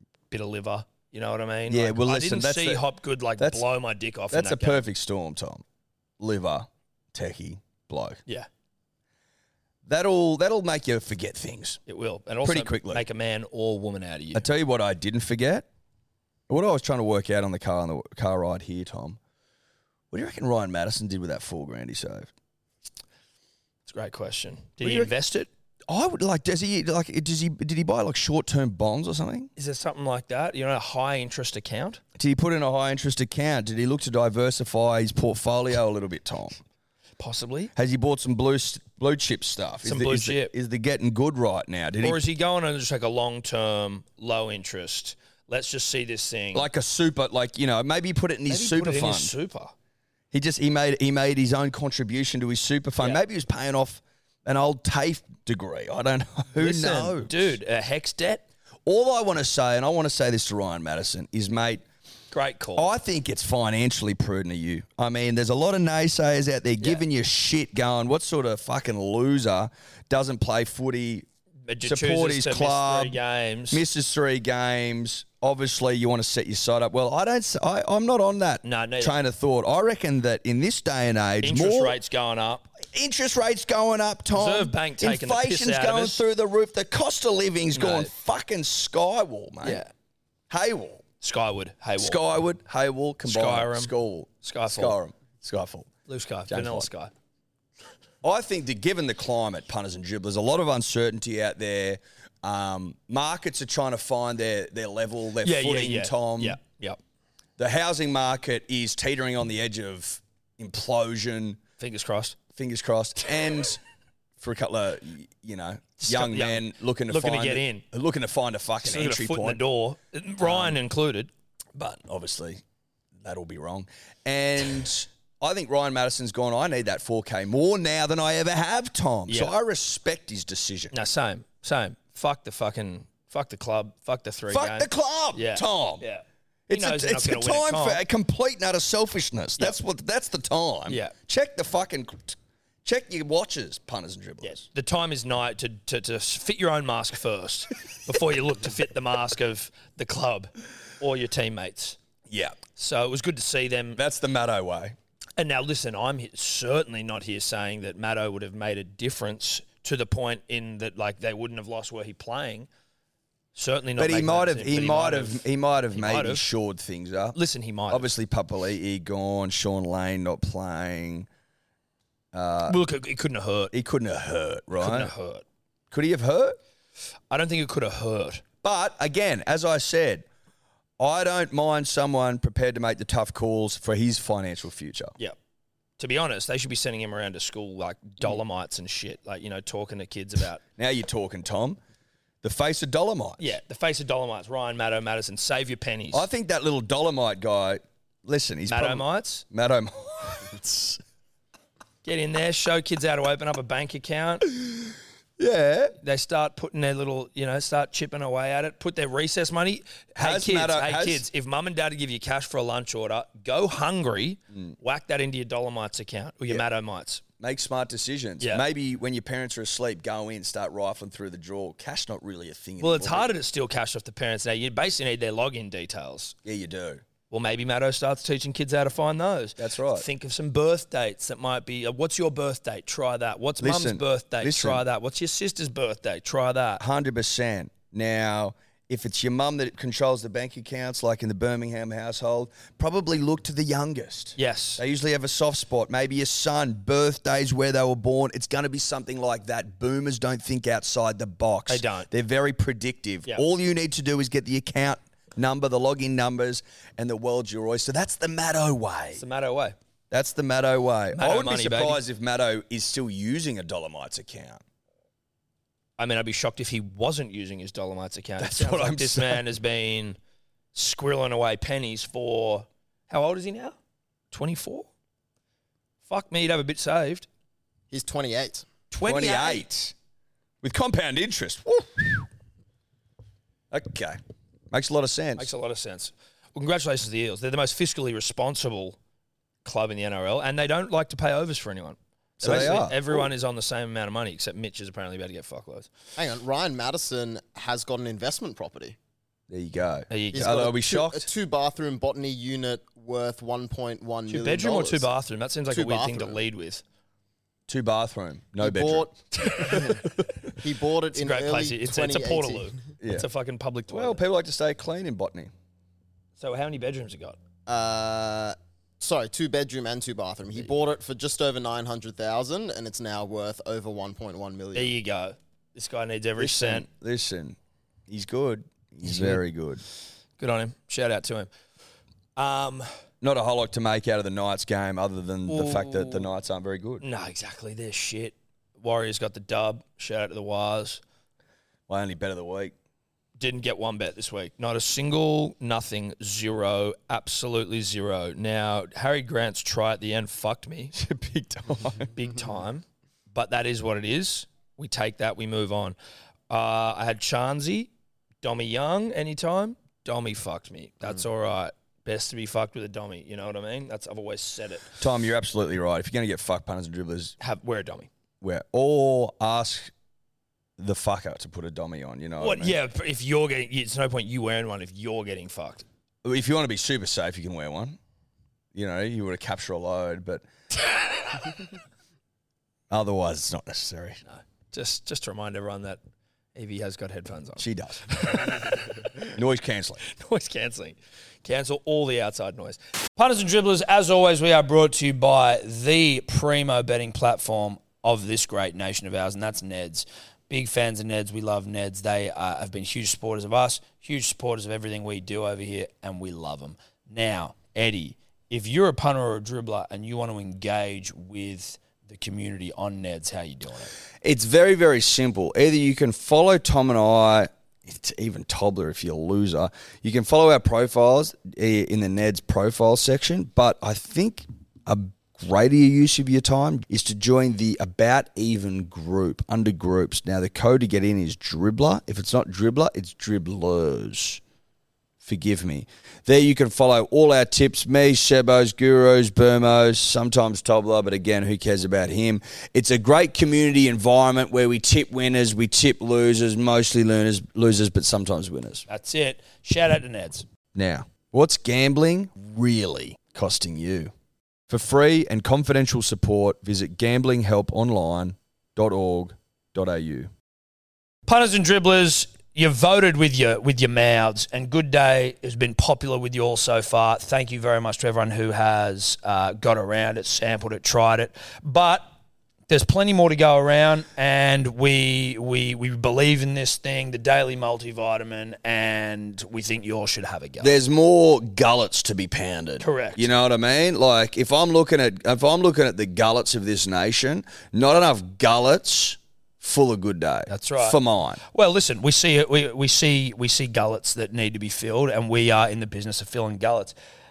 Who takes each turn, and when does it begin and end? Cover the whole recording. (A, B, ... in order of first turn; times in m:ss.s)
0:00.3-0:04.8 A
0:01.7-0:02.9 B
0:03.4-0:03.7 B
0:04.3-0:05.6 B
0:06.2-0:08.2 B
0:09.9-0:11.8 B
0:11.9-0:14.5 A
0:12.4-0:13.1 B
0:14.3-0:15.7 B
0:16.5-0:19.2 B
0:20.1-0:22.3 B
0:23.9-0:25.5 A
0:24.8-0:25.1 B
0:25.9-0:29.5 B
0:29.6-0:32.0 A
0:32.2-0:36.6 B
0:37.2-0:37.7 A
0:37.8-0:42.2 B
0:39.8-0:40.5 A
0:42.0-0:46.7 A
0:46.5-0:49.3 B
0:48.5-0:49.7 A
0:50.3-0:57.6 B
0:56.6-0:58.4 A
0:58.9-1:01.8 B
1:02.3-1:02.9 A
1:02.8-1:11.3 B
1:11.7-1:13.8 A
1:11.8-1:13.2 B
1:13.7-1:22.0 B
1:18.6-1:19.2 A
1:21.4-1:22.7 A
1:22.8-1:29.8 B
1:24.3-1:26.2 A
1:27.7-1:28.1 A
1:29.6-1:29.9 A
1:30.5-1:31.0 B
1:31.2-1:32.2 A
1:32.0-1:35.9 B
1:33.2-1:35.0 A
1:36.1-1:37.1 A
1:36.5-1:36.9 B
1:38.2-1:46.6 B
1:45.4-1:47.0 A
1:47.6-1:51.6 B
1:51.8-1:52.4 A
1:52.6-1:53.8 B
1:54.4-1:59.6 B
1:56.0-1:57.8 A
1:58.8-2:02.0 A
2:00.4-2:00.8 B
2:01.8-2:02.6 B
2:03.2-2:11.0 B
2:09.3-2:09.5 A
2:10.9-2:18.0 A
2:14.5-2:16.0 B
2:16.7-2:24.6 B
2:20.9-2:21.1 A
2:24.4-2:32.0 A
2:32.3-2:32.6 B
2:32.8-2:34.0 A
2:34.0-2:35.0 B
2:35.4-2:42.7 A
2:43.6-2:46.4 A
2:44.0-2:47.4 B
2:47.3-2:48.1 A
2:47.9-2:51.3 B
2:52.3-2:52.8 B
2:52.7-2:53.7 A
2:53.7-2:55.1 B
2:54.8-2:55.4 A
2:55.9-2:56.6 B
2:57.3-2:58.4 A
2:58.6-3:00.3 B
3:01.0-3:05.1 B
3:06.0-3:10.6 A
3:10.8-3:11.8 B
3:12.4-3:13.6 B
3:13.4-3:16.3 A
3:16.1-3:21.0 B
3:18.7-3:19.4 A
3:22.0-3:24.5 A
3:24.5-3:26.0 B
3:26.0-3:37.2 A
3:30.2-3:31.2 B
3:37.4-3:43.3 B
3:38.4-3:38.6 A
3:42.8-3:46.4 A
3:46.4-3:47.0 B
3:47.3-3:56.8 A
3:49.6-3:50.1 B
3:53.6-3:54.8 B
3:56.8-4:19.2 B
4:04.4-4:04.8 A
4:11.7-4:12.1 A
4:19.2-4:19.8 A
4:20.1-4:24.6 B
4:21.2-4:22.0 A
4:26.0-4:30.2 A
4:28.4-4:29.4 B
4:30.7-4:33.8 A
4:34.3-4:34.9 A
4:36.1-4:37.3 A
4:37.9-4:38.7 C
4:38.9-4:39.6 A
4:39.0-4:40.0 B
4:40.6-4:42.3 B
4:43.7-4:44.2 B
4:44.7-4:45.5 B
4:45.4-4:49.0 A
4:49.6-4:55.9 A
4:52.4-4:53.3 B
4:56.2-4:59.0 C
4:59.5-5:01.3 B
5:00.1-5:00.7 A
5:00.3-5:05.1 C
5:04.3-5:06.8 A
5:05.7-5:06.4 C
5:07.7-5:09.1 B
5:08.6-5:12.8 C
5:09.4-5:10.0 A
5:11.1-5:14.2 A
5:13.0-5:13.3 B
5:13.9-5:15.5 B
5:16.4-5:17.4 A
5:17.7-5:25.0 C
5:24.7-5:26.9 A
5:26.4-5:27.6 B
5:28.1-5:29.8 B
5:29.0-5:29.4 A
5:30.4-5:31.5 A
5:32.4-5:32.9 A
5:33.2-5:37.0 B
5:35.5-5:36.3 A
5:37.0-5:41.0 A
5:41.9-5:42.8 B
5:43.4-5:50.9 A
5:50.9-5:52.1 B
5:52.2-5:56.0 A
5:56.5-5:57.9 A
5:58.4-6:05.0 A
6:05.0-6:07.4 B
6:07.4-6:08.1 A
6:08.4-6:09.9 B
6:10.8-6:12.8 B
6:12.4-6:15.9 A
6:16.2-6:18.0 B
6:18.7-6:20.4 B
6:22.9-6:24.2 B
6:24.3-6:26.0 A
6:26.6-6:29.1 A
6:27.6-6:28.5 B
6:29.3-6:30.0 B
6:30.0-6:53.9 A
6:54.2-7:14.4 B
7:15.2-7:28.9 B
7:28.9-7:30.5 A
7:30.8-7:34.1 B
7:34.7-7:40.3 B
7:41.3-7:52.1 A
7:52.7-8:00.7 A
8:00.6-8:11.4 B
8:02.8-8:03.3 A
8:10.5-8:17.0 A